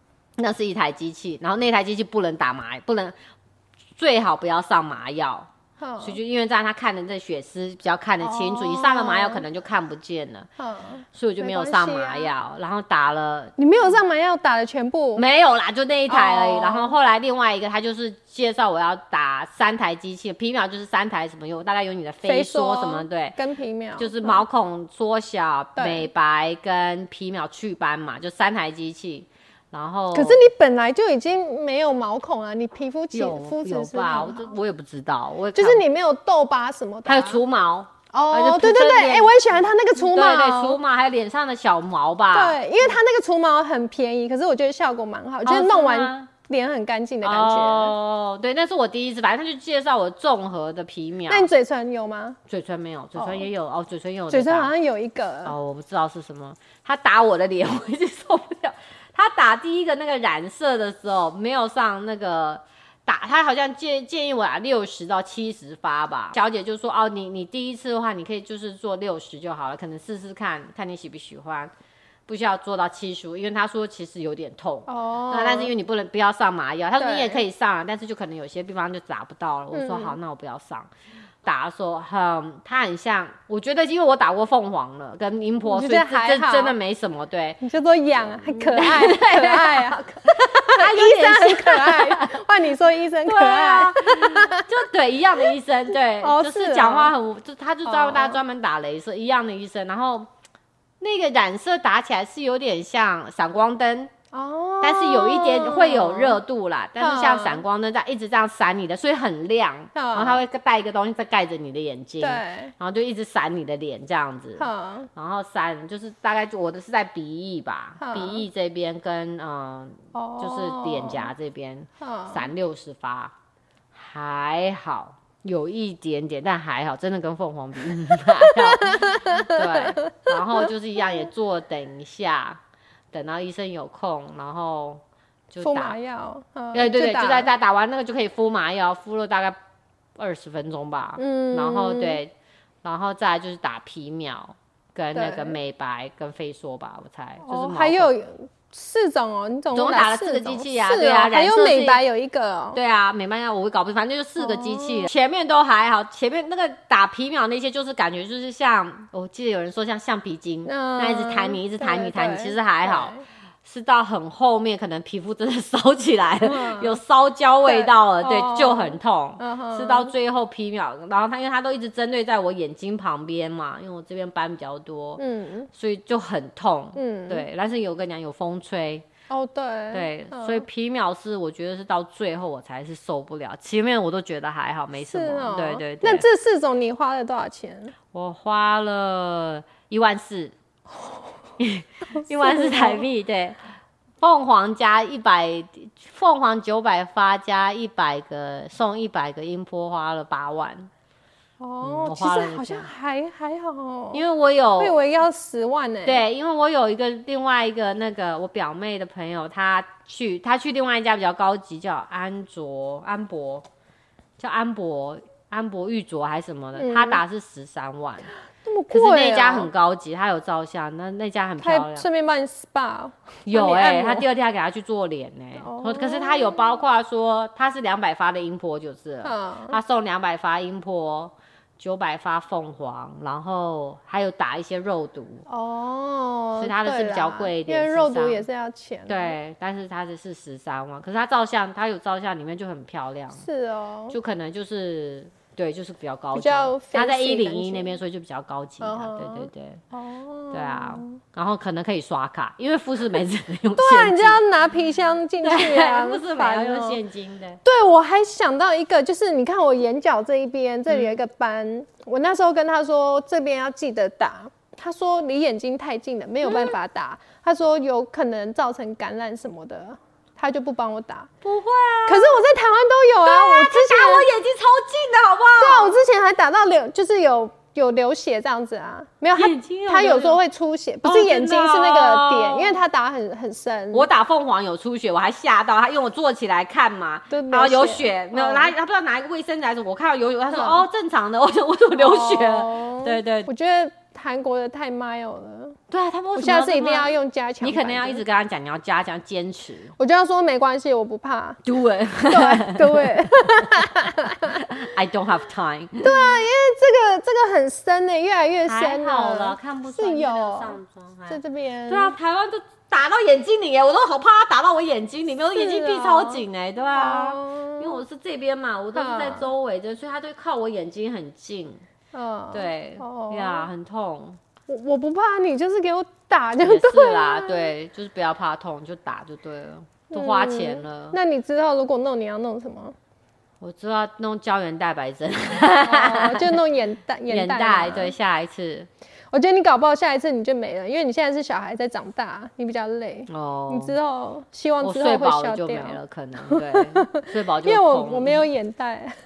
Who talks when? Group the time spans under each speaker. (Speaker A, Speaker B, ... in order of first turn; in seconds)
Speaker A: 0.4-3.1, 4.0-5.5, 6.0-10.5, 11.1-13.5, 15.2-23.4, 24.0-30.4, 33.1-35.8, 37.0-39.3, 39.9-42.6, 45.4-46.3, 47.2-51.5, 52.5-54.7, 55.4-71.7, 72.3-80.9, 81.4-87.6, 88.3-92.5, 93.2-100.3, 101.0-104.1, 104.8-123.3, 123.9-132.6, 133.1-135.9, 136.7-139.6, 140.2-148.1, 149.7-152.0, 152.7-179.0, 179.9-186.2, 188.1-190.5, 191.6-193.6, 194.2-200.9, 201.8-202.9, 204.1-204.9, 206.0-213.7, 214.4-218.3, 218.9-222.1, 223.4-235.4, 236.6-238.4, 239.1-243.4, 244.1-249.8, 250.5-254.4, 255.4-257.6, 260.9-261.1, 266.4-266.8, 271.4-272.3, 273.2-276.0, 279.4-280.4, 281.0-282.8, 283.9-293.5, 295.9-299.9, 301.6-306.1, 308.6-321.8, 322.5-324.4, 326.6-331.2, 333.6-336.6, 337.3-338.9, 343.3-344.0, 344.8-348.4
Speaker B: 5.8-6.2, 8.2-9.4, 10.6-12.3, 13.6-15.2, 16.1-16.9, 22.2-24.4, 25.8-26.1, 30.1-34.5, 35.5-37.4, 38.1-40.8, 42.3-47.9, 51.3-52.4, 53.2-53.5, 54.3-55.5, 74.9-75.7, 77.0-77.4, 79.7-80.2, 85.6-86.7, 87.6-94.7, 96.2-97.1, 97.8-98.4, 104.3-106.4, 107.0-107.6, 109.9-110.4, 112.2-112.7, 114.6-115.1, 118.0-118.4, 120.1-121.3, 122.0-122.5, 128.3-130.4, 135.6-137.5, 141.2-142.2, 145.1-145.5, 147.4-152.8, 154.4-155.1, 160.7-163.2, 166.4-167.0, 167.7-170.1, 175.2-175.7, 176.9-177.4, 179.3-180.6, 185.1-187.9, 192.3-193.0, 201.6-204.2, 204.8-206.2, 216.8-217.2, 218.6-219.7, 221.6-224.2, 225.6-226.8, 229.2-229.8, 235.5-239.3, 243.4-244.1, 246.3-248.0, 248.8-251.1, 253.8-257.0, 257.6-271.3, 272.1-274.3, 275.6-284.1, 287.3-288.7, 290.5-290.9, 291.9-295.8, 296.4-298.2, 300.0-301.6, 302.3-304.6, 306.0-310.8, 311.3-312.1, 315.5-318.0, 318.9-319.5, 322.1-323.7, 324.7-327.7, 330.1-332.9, 335.8-338.1, 339.3-349.1